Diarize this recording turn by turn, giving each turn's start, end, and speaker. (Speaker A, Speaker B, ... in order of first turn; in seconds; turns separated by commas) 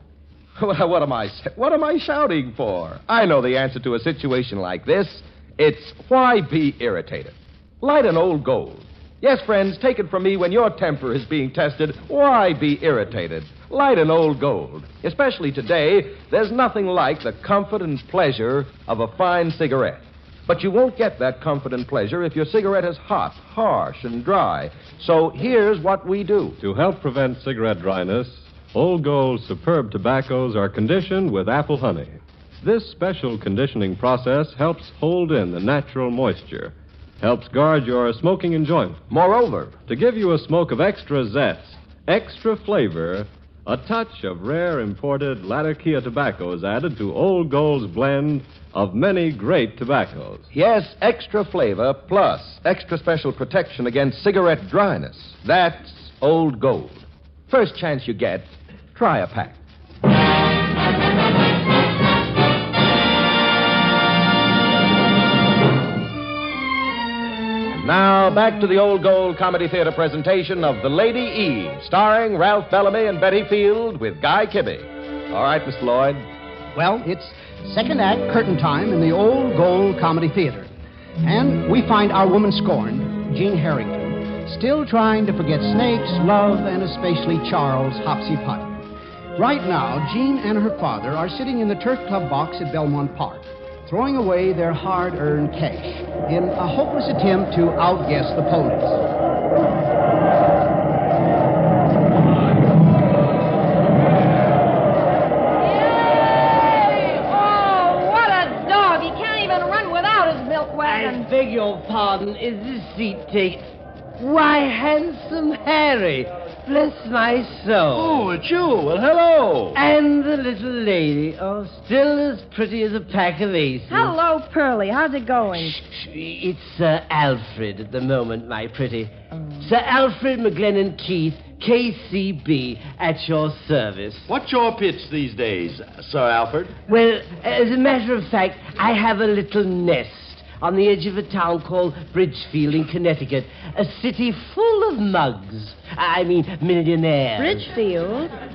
Speaker A: 0.6-26.6, Speaker B: 26.6-39.0, Speaker A: 39.1-39.8, Speaker B: 39.9-50.5, Speaker A: 50.5-59.6, Speaker A: 67.7-76.2, Speaker C: 76.8-80.7, Speaker C: 81.2-88.8, Speaker C: 89.4-99.0, Speaker D: 106.3-111.3, Speaker E: 110.8-118.3, Speaker F: 117.9-119.8, Speaker E: 119.7-124.2, Speaker D: 123.9-125.8, Speaker E: 125.7-134.3, Speaker D: 129.3-129.7, Speaker F: 134.3-136.8, Speaker E: 136.9-147.7, Speaker D: 147.4-148.3